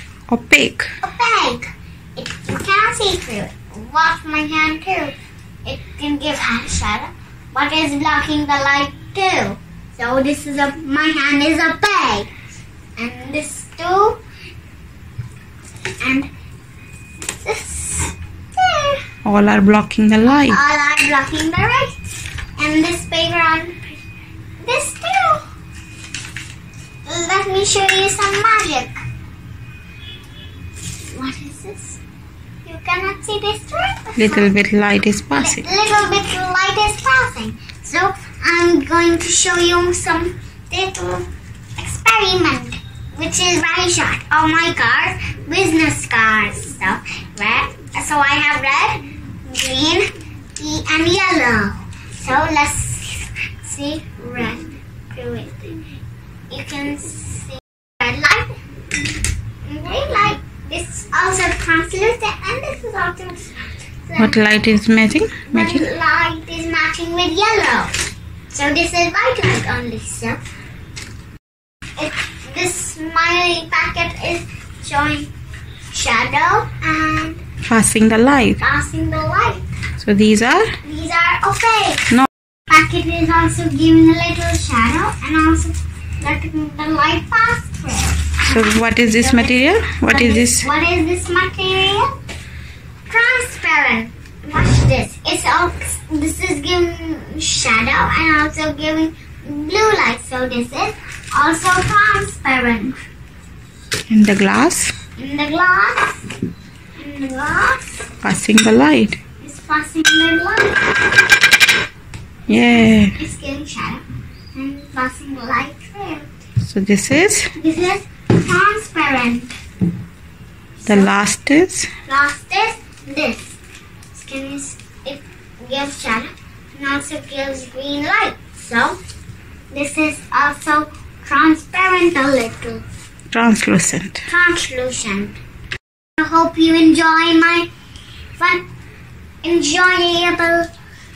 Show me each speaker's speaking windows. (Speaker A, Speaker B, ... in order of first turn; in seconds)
Speaker A: 0.3-0.9, 19.2-20.6, 34.2-35.6, 64.2-65.9, 77.7-78.6, 80.0-80.8, 88.4-90.7, 104.1-104.9, 108.2-109.2, 112.5-113.1, 116.6-117.5, 120.8-121.9, 133.3-134.2
Speaker B: 1.0-12.3, 13.0-14.2, 16.0-16.3, 17.3-19.0, 20.3-22.1, 22.6-23.9, 24.6-25.4, 27.1-29.0, 31.1-32.0, 32.6-34.5, 35.3-55.8, 56.5-58.5, 59.6-64.4, 65.5-67.9, 68.5-70.4, 72.0-75.3, 75.9-77.4, 78.6-79.6, 80.8-82.1, 82.7-88.6, 89.2-92.1, 93.1-103.0, 105.2-106.2, 107.0-108.1, 109.4-111.2, 113.2-116.3, 117.5-119.5, 120.8-121.1, 122.1-123.6, 124.1-129.0, 129.7-132.8, 134.2-135.3, 136.2-137.7, 138.4-138.6, 139.4-140.7